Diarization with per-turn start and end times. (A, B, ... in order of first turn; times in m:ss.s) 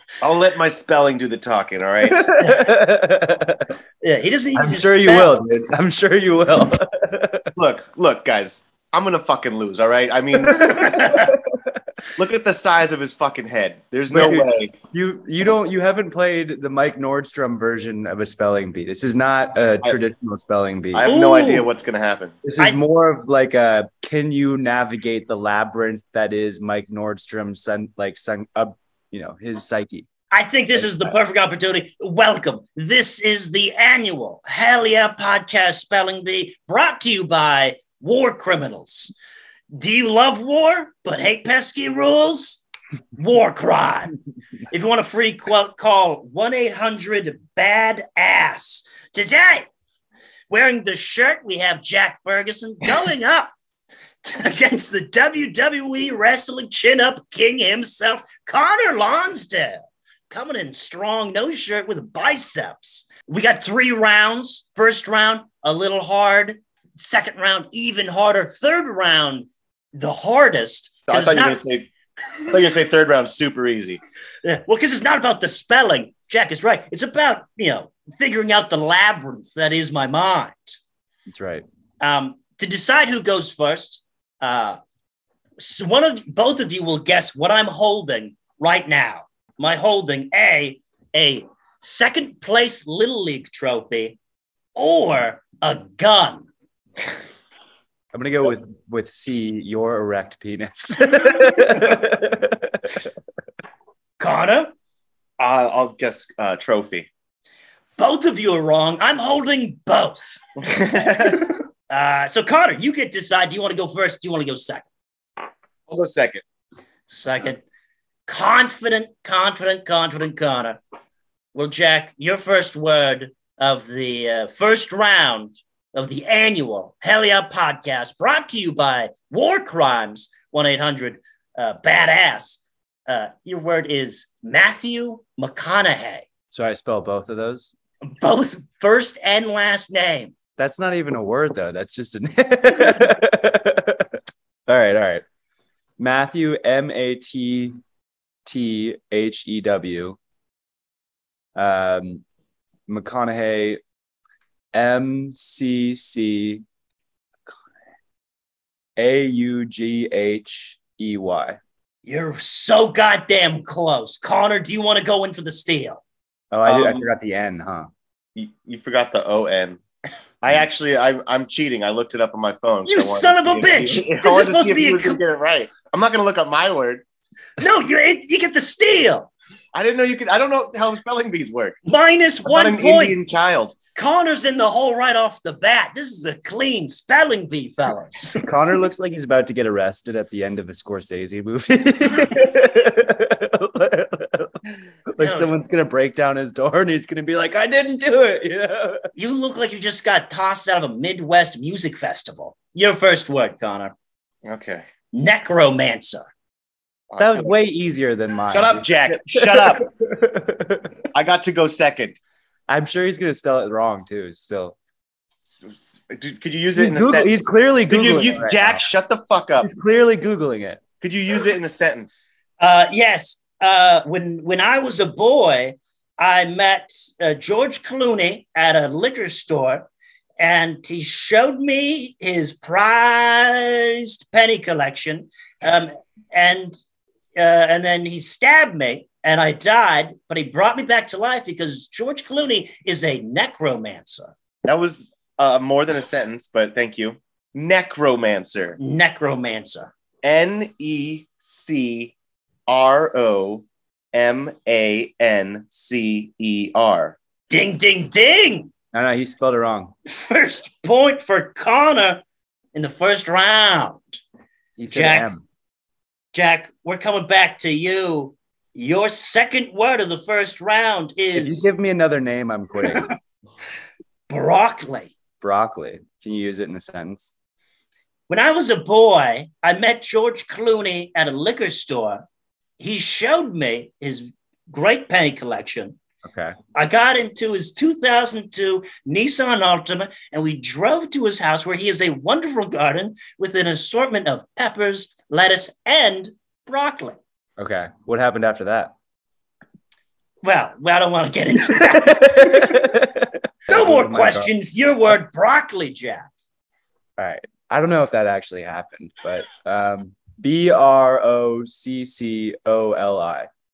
0:00.2-0:02.3 A
0:02.0-0:03.7 B
0:02.4-0:02.7 C
0:04.0-0:05.3 C
0:04.6-0:07.5 B
0:07.6-0:10.8 A
0:10.4-0:11.8 B
0:10.6-0:11.3 C
0:12.1-0:14.8 A
0:14.1-0:21.1 B
0:20.9-0:22.4 A
0:21.0-0:21.7 C
0:22.4-0:30.1 B
0:30.3-0:39.1 C
0:30.7-0:31.1 B
0:39.7-0:42.6 C
0:43.2-0:44.2 C
0:44.7-0:49.7 C
0:50.5-0:53.5 C
0:54.2-1:11.6 C
1:11.1-1:11.9 A
1:12.4-1:14.0 A
1:14.4-1:20.8 C
1:21.3-1:21.6 B
1:22.0-1:24.8 C
1:25.6-1:34.2 C
1:34.8-1:36.5 C
1:38.1-1:43.1 B
1:44.2-1:44.7 C
1:45.4-1:47.1 A
1:48.0-1:50.4 C
1:50.6-1:51.5 A
1:51.9-1:54.9 C
1:55.9-1:56.4 A
1:57.1-1:57.6 C
1:58.2-2:00.8 C
2:01.5-2:16.2 C
2:16.5-2:17.7 B
2:18.0-2:20.3 C
2:20.6-2:25.2 B
2:26.0-2:27.8 B
2:28.4-2:30.2 B
2:31.5-2:32.2 B
2:32.9-2:33.8 B
2:34.7-2:36.6 B
2:39.0-2:41.6 B
2:42.0-2:46.0 C
2:46.5-2:47.9 B
2:46.6-2:47.0 A
2:48.4-2:49.8 A
2:50.4-2:57.0 A
2:52.8-2:55.2 C
2:57.6-2:59.3 C
2:59.7-3:01.8 A
3:01.8-3:03.2 C
3:02.4-3:03.8 A
3:03.9-3:08.4 C
3:08.4-3:19.0 B
3:15.2-3:15.5 C
3:19.2-3:23.9 C
3:24.4-3:24.8 A
3:25.1-3:26.3 C
3:27.1-3:27.5 A
3:27.2-3:30.9 B
3:28.5-3:29.9 A
3:31.1-3:32.2 A
3:32.7-3:34.8 B
3:35.4-3:39.7 A
3:36.7-3:38.8 B
3:39.6-3:40.8 B
3:41.0-3:42.3 A
3:42.6-3:49.9 C
3:50.4-3:56.8 C
3:57.4-4:04.3 C
4:04.6-4:08.8 A
4:08.8-4:09.9 C
4:10.2-4:12.1 A
4:12.7-4:17.2 A
4:17.5-4:18.7 C
4:18.9-4:19.9 B
4:20.1-4:22.2 C
4:22.7-4:24.2 C
4:24.8-4:25.4 B
4:24.9-4:25.3 C
4:26.3-4:31.7 C
4:31.3-4:33.1 B
4:34.3-4:35.1 C
4:35.4-4:37.3 B
4:38.3-4:42.2 C
4:42.8-4:46.0 C
4:46.2-4:46.6 B
4:46.7-4:57.2 C
4:57.6-4:58.9 B
5:00.4-5:02.9 C
5:01.7-5:04.5 B
5:03.7-5:06.3 C
5:07.2-5:13.5 B